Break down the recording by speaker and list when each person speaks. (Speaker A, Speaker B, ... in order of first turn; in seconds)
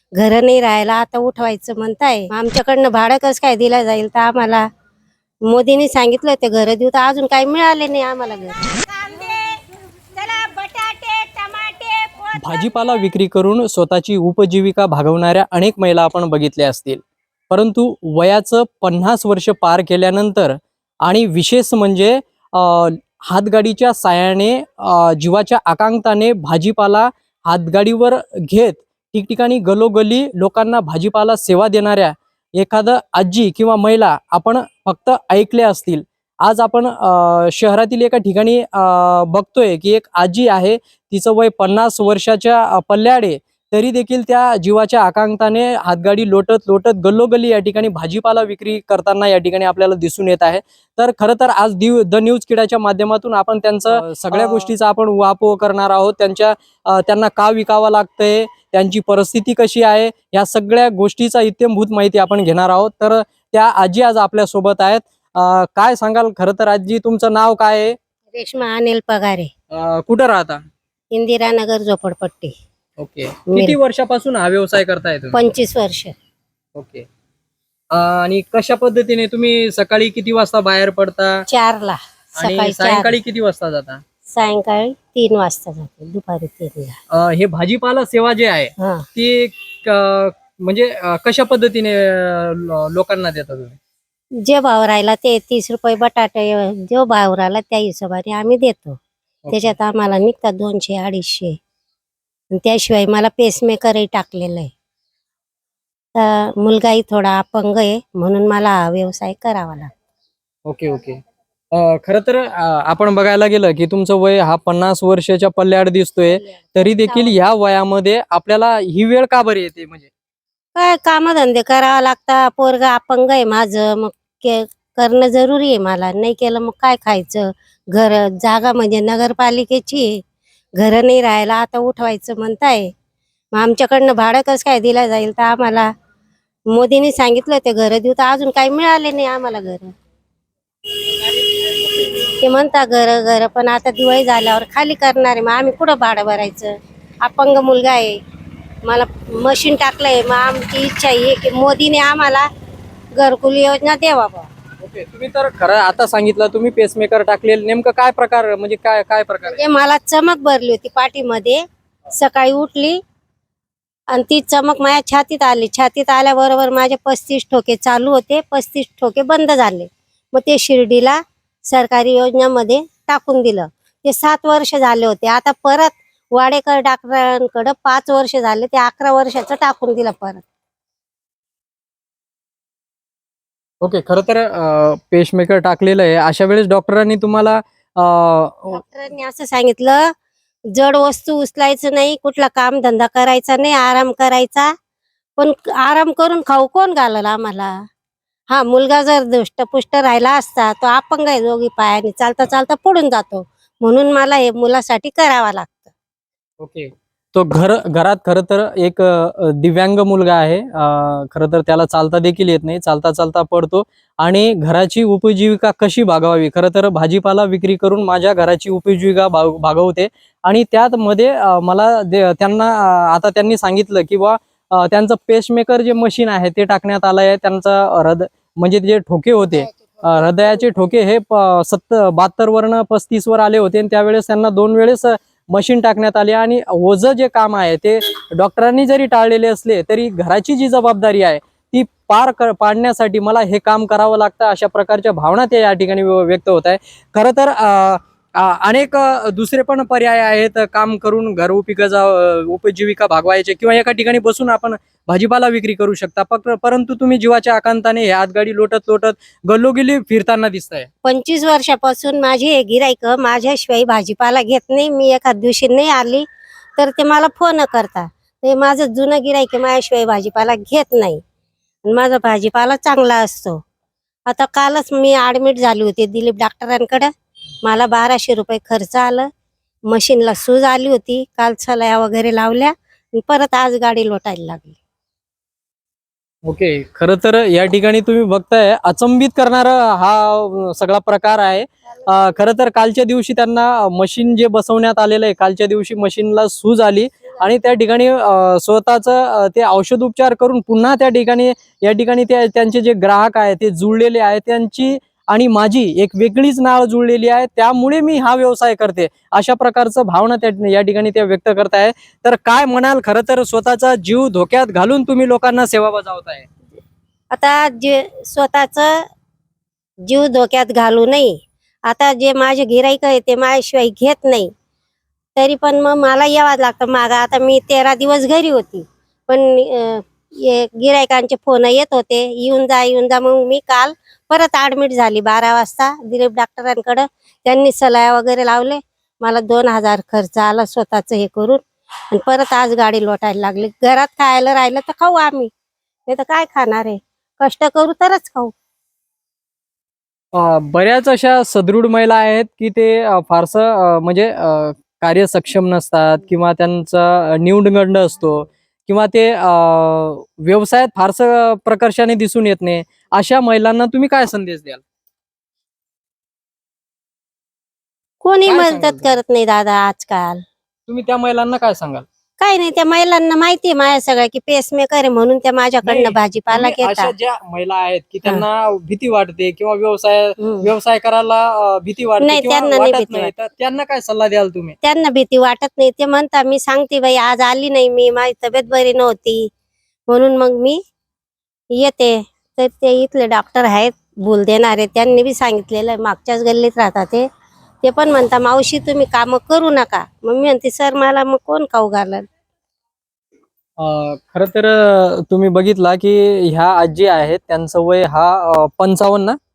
Speaker A: 0.2-4.7, 5.5-9.6, 10.1-12.6, 68.3-69.5, 71.1-72.5, 73.5-73.8, 75.3-76.1, 81.5-83.2, 84.3-87.0, 88.8-89.1, 94.4-99.0, 99.5-101.6, 102.5-104.7, 106.1-109.9, 116.3-117.4, 120.8-130.2, 130.8-132.9, 133.5-135.9, 136.7-139.9, 141.0-148.2, 148.8-152.5, 153.2-154.5, 159.4-163.0, 164.1-180.4, 188.7-190.1, 190.7-194.7, 195.4-197.8, 198.5-205.9, 261.0-266.2, 266.8-271.2, 271.9-273.6, 274.3-277.1, 277.6-279.3, 279.9-284.8, 317.3-319.0, 320.1-324.5, 325.4-345.5, 346.1-348.5, 368.2-370.4, 372.4-377.1, 380.4-380.7, 382.2-383.3, 384.8-389.5, 390.1-390.8, 391.7-397.2, 397.8-402.2
Speaker B: 12.4-68.0, 69.7-70.6, 73.0-75.4, 76.8-77.1, 77.9-81.5, 82.4-84.0, 87.1-93.8, 99.5-99.7, 110.7-111.2, 111.7-120.1, 154.8-159.6, 183.8-188.8, 206.6-260.9, 286.4-316.4, 350.3-364.8, 368.4-369.2, 370.9-372.1, 375.8-384.8, 403.8-409.4